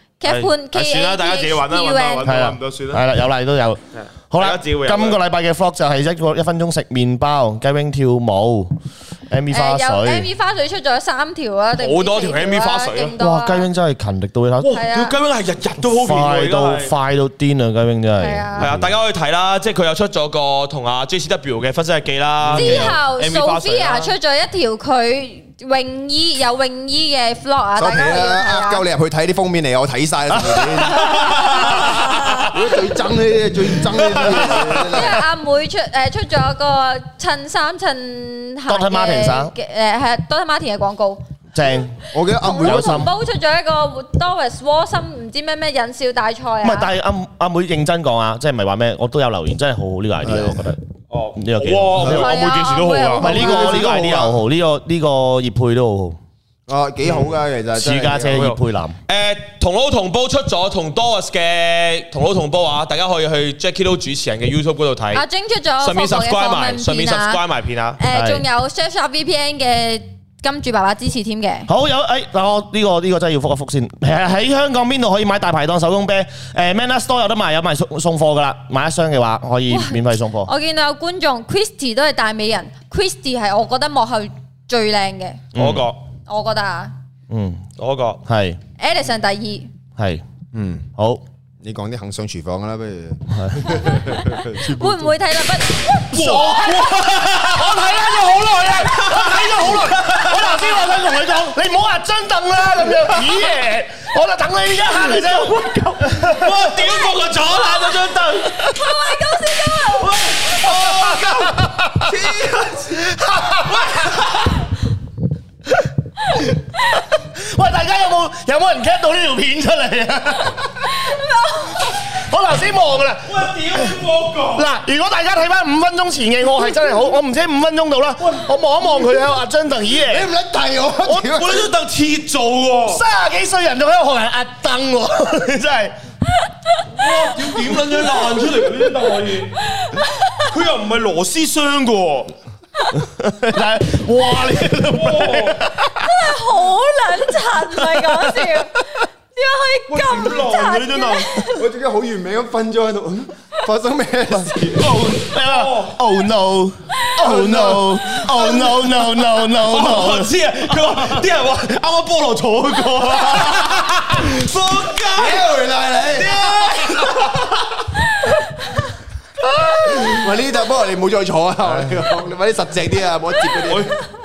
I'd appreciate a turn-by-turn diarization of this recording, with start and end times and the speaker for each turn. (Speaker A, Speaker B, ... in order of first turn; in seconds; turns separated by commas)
Speaker A: 0.2-2.2, Speaker B: 0.2-3.0, Speaker C: 2.2-8.7, Speaker B: 3.9-5.2, Speaker C: 9.3-10.3, Speaker A: 9.5-13.7, Speaker B: 11.7-13.1, Speaker C: 13.2-14.8, Speaker B: 14.6-16.9, Speaker A: 14.7-15.1, Speaker C: 15.8-18.9, Speaker A: 18.2-18.7, Speaker B: 18.6-24.1, Speaker C: 22.4-23.0, Speaker A: 22.5-28.8, Speaker D: 27.8-31.4, Speaker B: 30.6-32.5, Speaker A: 30.9-32.6, Speaker D: 32.5-35.2, Speaker B: 33.9-34.9, Speaker A: 34.4-41.2, Speaker C: 38.7-39.5, Speaker C: 41.5-42.0, Speaker D: 42.1-43.1, Speaker A: 42.4-46.9, Speaker C: 42.6-43.1, Speaker C: 46.6-50.8, Speaker D: 50.2-50.6, Speaker B: 51.1-53.5, Speaker C: 51.4-52.1, Speaker A: 52.1-53.8, Speaker C: 53.2-56.2, Speaker D: 53.2-54.4, Speaker D: 56.7-58.5, Speaker B: 57.0-57.4, Speaker C: 57.7-59.0, Speaker B: 58.3-65.2, Speaker A: 65.1-67.4, Speaker B: 65.8-68.0, Speaker A: 68.0-71.7, Speaker C: 68.1-68.4, Speaker C: 71.7-80.5, Speaker A: 79.7-85.4, Speaker C: 85.5-85.9, Speaker B: 85.5-86.0, Speaker A: 86.3-86.9, Speaker C: 87.3-87.7, Speaker B: 87.8-88.2, Speaker C: 88.2-88.6, Speaker A: 88.8-89.7, Speaker C: 90.0-90.2, Speaker D: 90.5-90.8, Speaker C: 91.0-91.2, Speaker D: 91.6-95.2, Speaker C: 93.3-93.9, Speaker A: 93.7-97.0, Speaker C: 96.1-106.7, Speaker B: 96.1-98.0, Speaker B: 98.6-101.0, Speaker B: 102.9-103.5, Speaker B: 104.9-108.7, Speaker A: 106.8-108.1, Speaker A: 108.6-110.7, Speaker B: 110.0-114.6, Speaker C: 110.7-112.2, Speaker C: 112.9-114.2, Speaker C: 116.3-120.8, Speaker A: 120.9-122.0, Speaker C: 122.0-124.0, Speaker B: 123.2-124.7, Speaker C: 124.5-130.3, Speaker D: 129.9-131.7, Speaker C: 131.0-131.3, Speaker B: 131.2-133.0, Speaker C: 132.9-135.9, Speaker B: 136.9-139.6, Speaker A: 139.6-140.5, Speaker B: 140.4-142.3, Speaker C: 143.0-146.1, Speaker B: 144.7-145.6, Speaker A: 145.9-151.7, Speaker B: 149.9-151.3, Speaker D: 151.5-154.8, Speaker C: 154.7-160.3, Speaker B: 154.8-155.9, Speaker D: 157.2-158.0, Speaker B: 157.7-158.6, Speaker B: 159.5-165.5, Speaker D: 165.1-167.3, Speaker B: 166.1-167.8, Speaker C: 169.6-170.2, Speaker D: 169.8-173.9, Speaker B: 173.6-173.9